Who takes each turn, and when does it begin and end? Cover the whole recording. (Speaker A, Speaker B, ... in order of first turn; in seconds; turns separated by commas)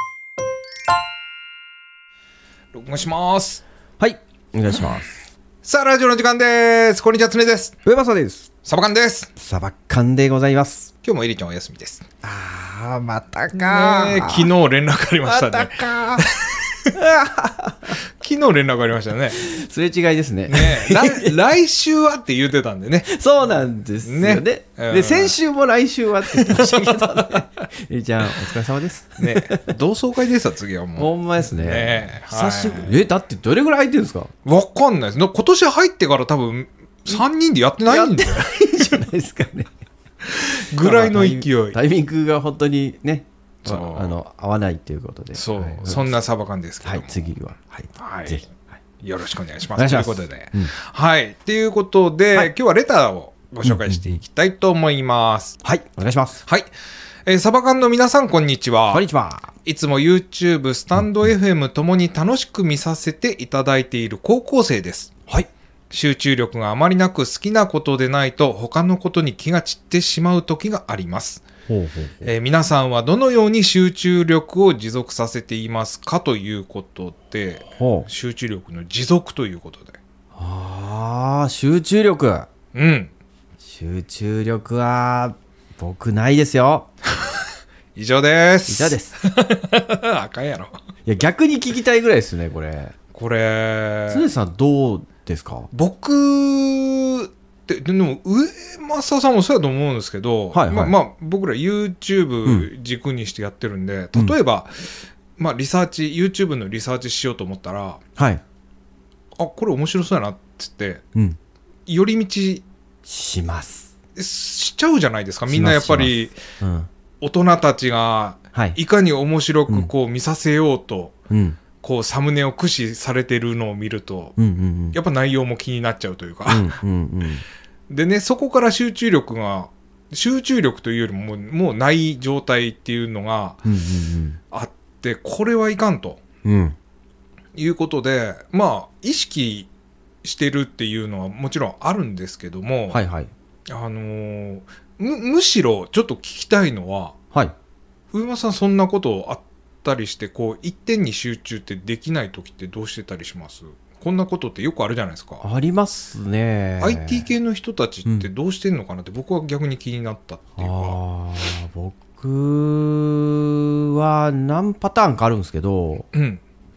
Speaker A: 2.7-3.6, Speaker B: 4.0-5.2, Speaker A: 5.6-7.8, Speaker B: 7.8-8.5, Speaker A: 8.6-9.3, Speaker B: 9.4-10.9, Speaker A: 11.0-12.1, Speaker B: 12.2-14.5, Speaker A: 13.5-16.7, Speaker B: 15.2-16.2, Speaker B: 16.9-18.0, Speaker A: 18.2-19.4, Speaker B: 19.4-21.4, Speaker A: 20.5-23.1, Speaker B: 23.1-29.7, Speaker A: 24.0-25.4, Speaker A: 26.2-27.4, Speaker A: 29.2-33.0, Speaker B: 31.0-34.3, Speaker A: 34.4-39.0, Speaker B: 37.9-39.7, Speaker A: 40.2-41.8, Speaker B: 40.8-46.2, Speaker A: 43.6-44.2, Speaker A: 45.3-47.3, Speaker B: 46.8-48.7, Speaker A: 48.0-48.4, Speaker A: 49.0-55.6, Speaker B: 49.8-50.7, Speaker B: 53.6-54.2, Speaker B: 55.6-56.4, Speaker A: 56.4-56.7, Speaker A: 57.2-59.1, Speaker B: 58.9-59.5, Speaker A: 59.6-65.1, Speaker A: 65.9-71.5, Speaker B: 71.7-72.3, Speaker A: 72.2-80.0, Speaker B: 77.7-78.1, Speaker B: 80.3-82.5, Speaker A: 82.7-83.1, Speaker B: 83.6-86.9, Speaker A: 87.9-90.8, Speaker B: 88.7-89.1, Speaker B: 91.0-92.9, Speaker A: 93.1-94.3, Speaker B: 94.1-95.7, Speaker A: 95.7-108.0, Speaker B: 100.5-100.9, Speaker B: 108.2-108.4, Speaker A: 109.4-111.0, Speaker A: 111.8-112.6, Speaker B: 113.0-113.9, Speaker A: 114.2-116.4, Speaker B: 115.5-116.9, Speaker A: 117.2-121.2, Speaker B: 121.3-121.6, Speaker A: 121.8-124.3, Speaker B: 124.4-125.0, Speaker A: 124.9-126.8, Speaker B: 126.5-127.4, Speaker A: 127.9-133.6, Speaker B: 133.6-134.4, Speaker A: 134.5-136.2, Speaker B: 136.4-136.8, Speaker A: 137.6-139.7, Speaker A: 140.2-143.0, Speaker B: 142.9-143.3, Speaker A: 143.7-147.2, Speaker A: 148.1-155.4, Speaker B: 155.4-157.3, Speaker A: 156.8-161.0, Speaker B: 160.6-166.1, Speaker A: 166.1-166.4